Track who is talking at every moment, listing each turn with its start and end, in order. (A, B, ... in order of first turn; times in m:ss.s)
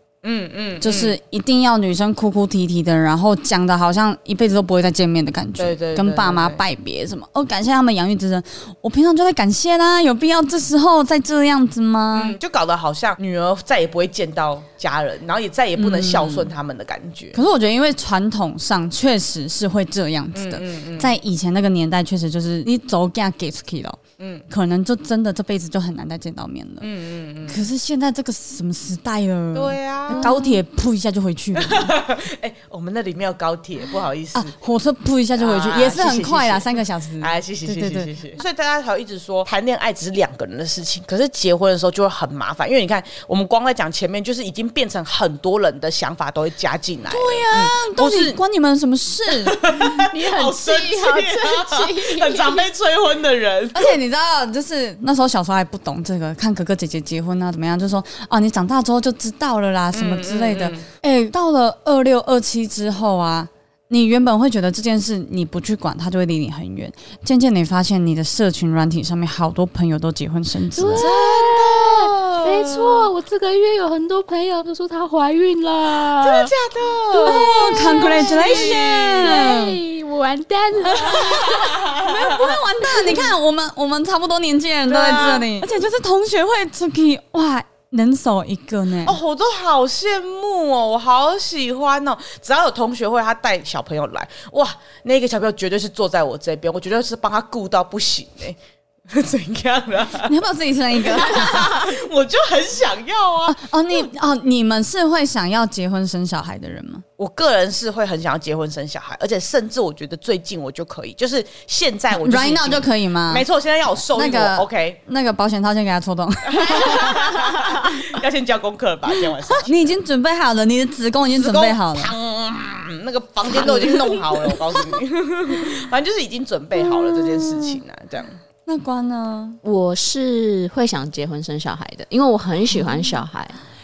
0:00.2-0:01.2 A
0:00.8-0:12.4 B
0:05.6-0:06.6 A
0:12.1-0:17.4 A
0:15.8-0:16.5 B
0:17.3-0:26.9 B
0:20.4-0:21.2 A
0:24.2-0:24.5 A
0:26.8-0:27.7 A
0:27.4-0:32.0 B
0:29.5-0:30.5 A
0:31.6-0:34.5 A
0:34.3-0:38.2 B
0:35.4-0:48.4 A
0:47.1-0:49.8 B
0:49.4-0:54.0 A
0:50.1-0:52.6 C
0:53.7-1:11.1 B
0:59.9-1:00.9 A
1:10.8-1:16.5 C
1:10.9-1:13.1 A
1:16.2-1:19.6 A
1:17.2-1:19.8 B
1:17.2-1:21.8 C
1:20.9-1:29.2 B
1:21.0-1:22.6 A
1:24.9-1:25.5 A
1:29.0-1:40.4 A
1:40.2-1:42.0 B
1:41.0-1:43.6 A
1:43.5-1:47.0 B
1:47.2-1:55.0 A
1:52.2-1:53.4 B
1:54.1-1:58.1 B
1:56.5-1:59.7 A
1:59.6-2:02.1 B
2:01.4-2:08.4 A
2:03.6-2:04.5 B
2:06.8-2:07.8 B
2:08.7-2:09.6 B
2:09.6-2:13.6 C